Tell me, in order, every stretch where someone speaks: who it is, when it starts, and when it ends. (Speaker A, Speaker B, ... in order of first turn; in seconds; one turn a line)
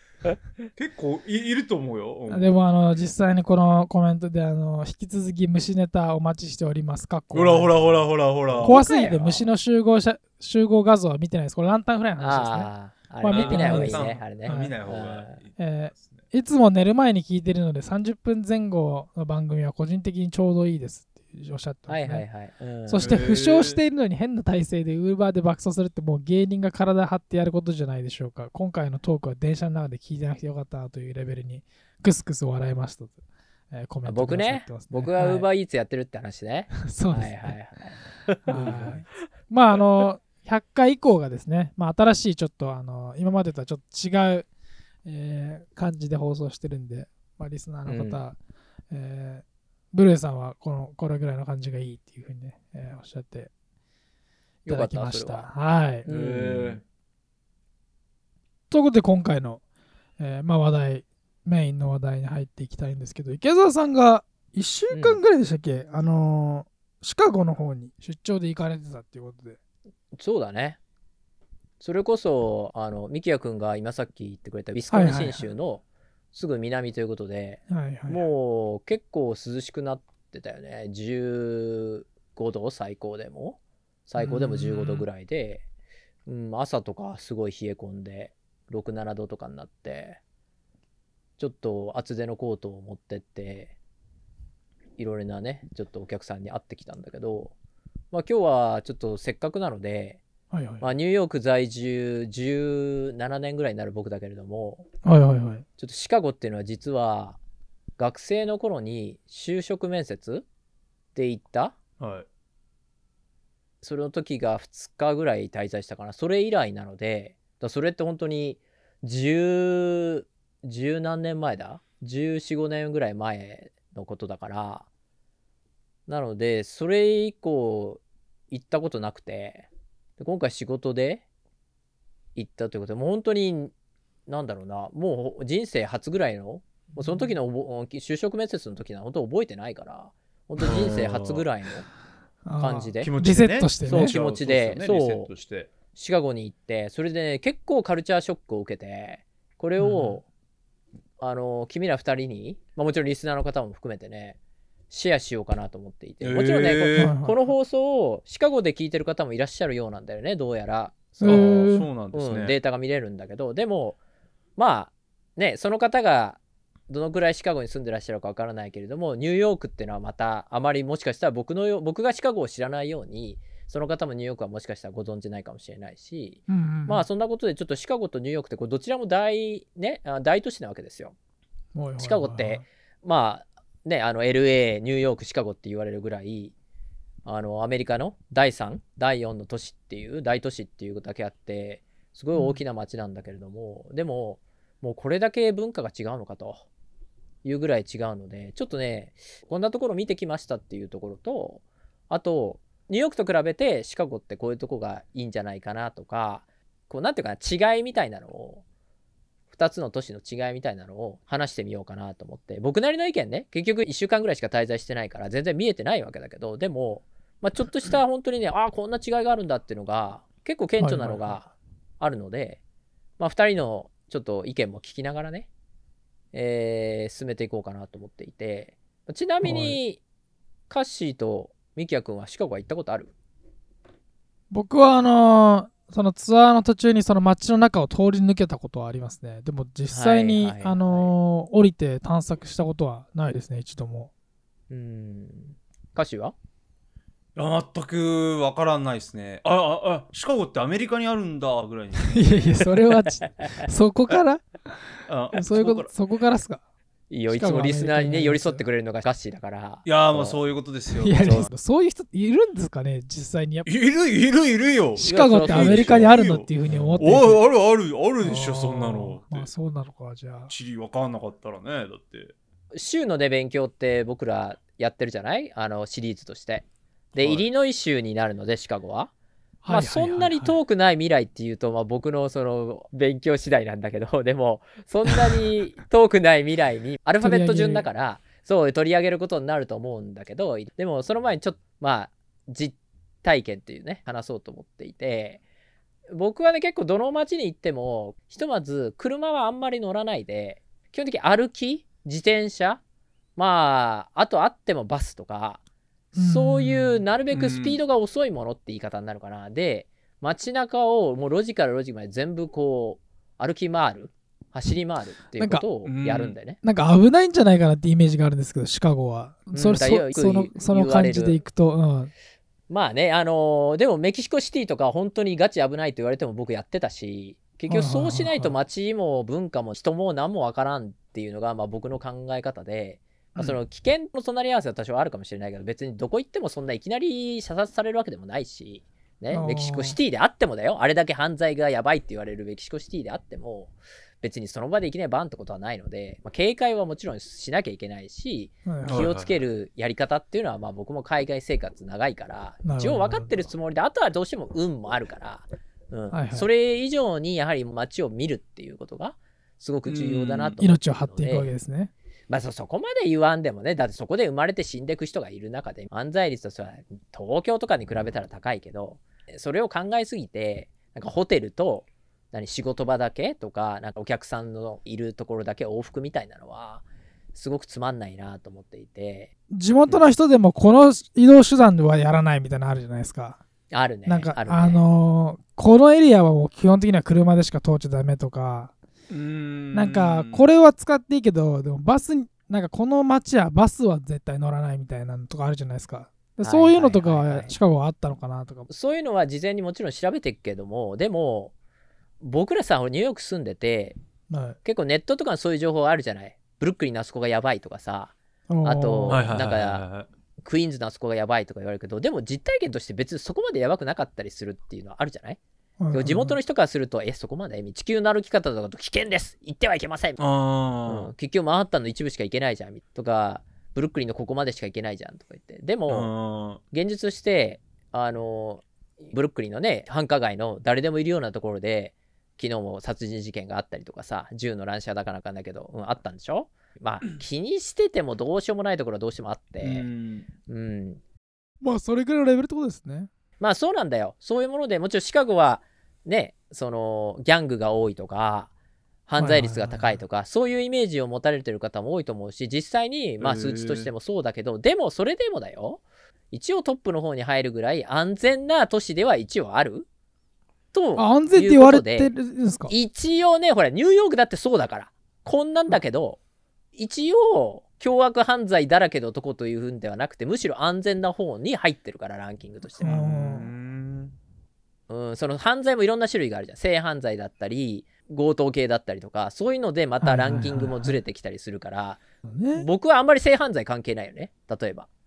Speaker A: 0.8-3.1
Speaker B: 2.3-8.0
Speaker A: 7.3-9.4
Speaker C: 8.5-9.2
Speaker B: 8.6-12.7
Speaker C: 12.2-15.4
Speaker B: 13.2-14.8
Speaker A: 13.3-16.2
Speaker B: 15.6-22.2
Speaker C: 21.9-23.1
Speaker B: 22.9-33.1
Speaker A: 23.0-23.8
Speaker B: 33.7-35.5
Speaker C: 34.0-39.1
Speaker B: 36.8-37.5
Speaker B: 38.5-44.5
Speaker A: 38.5-39.0
Speaker B: 45.0-48.4
Speaker C: 47.9-48.2
Speaker B: 48.9-53.5
Speaker C: 54.6-55.5
Speaker B: 54.7-56.1
Speaker C: 56.0-56.8
Speaker A: 56.1-56.8
Speaker B: 58.7-59.6
Speaker B: 60.2-69.6
Speaker C: 64.9-65.2
Speaker C: 70.2-70.8
Speaker C: 71.8-85.6
Speaker B: 74.9-75.5
Speaker B: 77.7-78.2
Speaker B: 84.2-85.1
Speaker C: 86.3-90.2
Speaker C: 91.4-93.7
Speaker C: 95.0-97.5
Speaker C: 98.1-100.2
Speaker B: 100.5-100.8
Speaker C: 100.8-104.9
Speaker B: 105.0-105.7
Speaker C: 105.8-107.4
Speaker C: 108.0-110.5
Speaker C: 111.2-111.8
Speaker A: 112.0-112.3
Speaker C: 113.8-124.9
Speaker C: 126.1-129.7
Speaker C: 130.2-131.2
Speaker C: 132.3-133.7
Speaker C: 134.3-141.9
Speaker B: 137.0-137.3
Speaker A: 140.6-141.5
Speaker B: 142.5-144.2
Speaker C: 142.6-143.1
Speaker A: 143.0-145.7
Speaker C: 143.9-145.3
Speaker C: 145.9-150.2
Speaker B: 149.8-150.2
Speaker C: 151.2-154.4
Speaker C: 154.9-164.0
Speaker A: 156.2-157.2
Speaker B: 157.0-157.4
Speaker B: 161.2-161.9
Speaker A: 161.2-162.6
Speaker C: 164.6-181.2
Speaker B: 176.5-177.1
Speaker B: 181.8-182.7
Speaker C: 182.0-186.5
Speaker C: 187.2-196.7
Speaker B: 192.3-192.6
Speaker C: 197.4-208.6
Speaker C: 209.5-221.5
Speaker B: 220.8-221.5
Speaker C: 222.0-222.6
Speaker C: 223.2-225.5
Speaker C: 226.3-230.0
Speaker B: 229.4-229.8
Speaker C: 230.7-233.1
Speaker B: 234.5-244.1
Speaker C: 239.9-241.1
Speaker C: 244.7-246.3
Speaker A: 247.4-252.5
Speaker B: 252.1-256.6
Speaker A: 255.1-255.9
Speaker C: 257.1-260.4
Speaker B: 257.3-258.6
Speaker A: 259.9-261.5
Speaker B: 261.0-263.7
Speaker C: 261.2-261.5
Speaker A: 263.7-269.5
Speaker B: 265.0-267.4
Speaker C: 265.1-266.0
Speaker B: 268.2-270.5
Speaker A: 270.5-272.4
Speaker C: 272.7-279.1
Speaker A: 277.2-277.5
Speaker B: 279.6-280.6
Speaker C: 279.7-295.4
Speaker B: 287.2-287.9
Speaker C: 296.1-302.8
Speaker C: 303.4-305.6
Speaker B: 306.1-307.0
Speaker C: 306.2-316.6
Speaker A: 307.3-307.8
Speaker B: 315.4-315.6
Speaker A: 315.9-316.4
Speaker B: 316.6-322.1
Speaker C: 319.5-321.4
Speaker C: 322.7-361.5
Speaker B: 327.7-328.5
Speaker B: 339.3-340.0
Speaker B: 348.7-349.1
Speaker A: 348.9-349.4
Speaker B: 352.6-353.3
Speaker B: 356.1-356.5
Speaker A: 359.9-360.6
Speaker B: 360.6-361.9
Speaker C: 362.3-376.8
Speaker C: 377.3-379.3
Speaker B: 379.5-383.4
Speaker C: 383.7-384.8
Speaker B: 384.1-388.7
Speaker A: 389.1-390.5
Speaker B: 389.7-398.7
Speaker C: 396.4-397.5
Speaker C: 398.7-401.5
Speaker C: 402.2-404.0
Speaker B: 404.3-404.6
Speaker C: 404.6-409.9
Speaker B: 408.5-409.3
Speaker A: 409.1-410.1
Speaker C: 410.4-415.4
Speaker B: 415.8-416.4
Speaker C: 415.9-420.2
Speaker A: 420.2-421.1
Speaker C: 420.9-426.1
Speaker A: 425.9-426.6
Speaker C: 426.7-439.9
Speaker A: 439.6-440.3
Speaker C: 440.5-441.0
Speaker B: 441.6-443.1
Speaker C: 443.4-448.5
Speaker C: 449.1-459.9
Speaker B: 449.2-450.0
Speaker A: 453.2-453.9
Speaker C: 460.7-462.1
Speaker B: 461.0-462.7
Speaker C: 462.7-466.2
Speaker C: 466.8-473.0
Speaker A: 472.8-474.1
Speaker B: 472.8-473.5
Speaker C: 474.9-482.0
Speaker B: 480.0-481.0
Speaker B: 482.3-482.7
Speaker C: 482.6-484.9